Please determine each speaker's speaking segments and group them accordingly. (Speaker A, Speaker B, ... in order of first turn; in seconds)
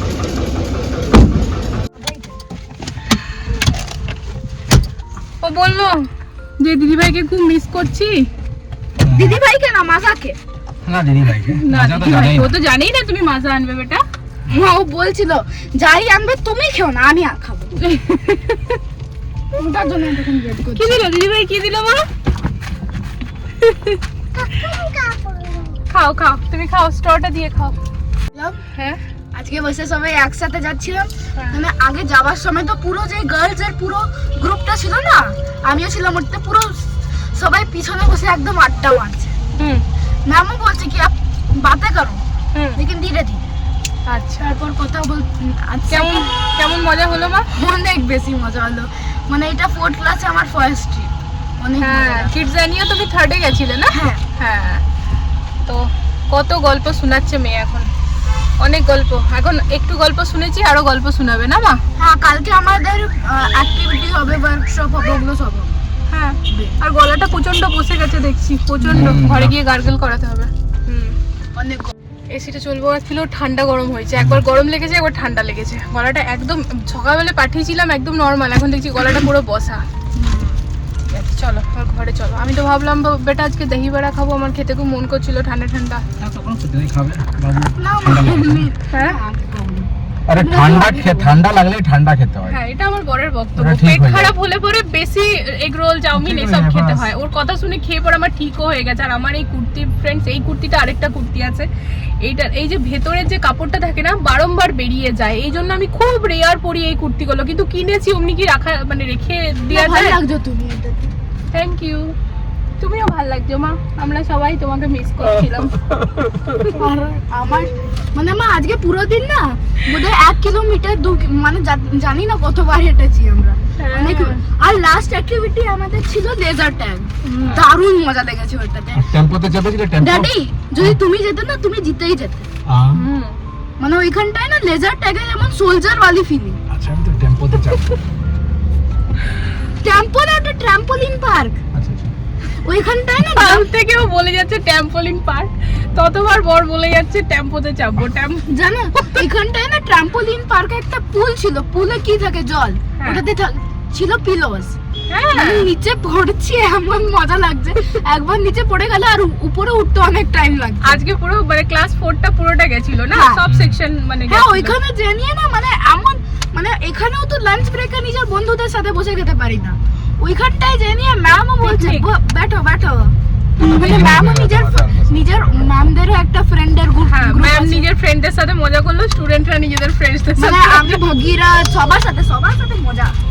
Speaker A: 2.0-2.3, 9.1-10.4, 14.5-17.7, 19.5-21.1, 24.3-25.8, 28.3-28.6, 29.3-39.4, 40.2-42.2, 42.8-43.5, 44.4-46.4, 47.5-52.3, 53.9-54.2, 62.0-65.7, 66.5-66.7, 71.5-71.9, 80.1-80.6, 87.8-91.3, 109.6-111.1, 116.7-129.1, 130.0-132.5, 133.8-136.6, 139.8-141.6, 142.5-143.7, 148.5-154.8, 155.3-161.0, 163.1-163.4, 164.3-177.8, 180.4-183.2
Speaker B: 5.4-8.3, 11.6-14.0, 17.8-18.8, 20.7-22.1, 23.6-24.0, 25.9-27.8, 28.7-29.0, 39.6-39.8, 42.5-42.8, 44.0-44.5, 45.9-47.5, 51.8-54.8, 55.6-57.9, 58.6-61.8, 66.1-71.2, 72.3-79.8, 81.1-86.0, 88.9-89.2, 92.5-101.7, 102.2-110.2, 111.5-112.2, 112.8-115.8, 116.5-116.8, 123.8-124.4, 127.2-127.7, 132.9-133.4, 143.3-149.2, 153.0-153.2, 155.1-155.7, 160.8-164.8, 171.6-172.1, 177.1-181.0
Speaker C: 9.0-9.4, 10.8-12.5, 68.8-69.6, 74.2-74.4, 86.2-88.7, 90.3-92.6, 93.5-94.3, 96.1-97.1, 128.9-131.0, 132.7-133.0, 136.7-138.0, 141.7-142.1, 163.5-163.8, 173.6-175.7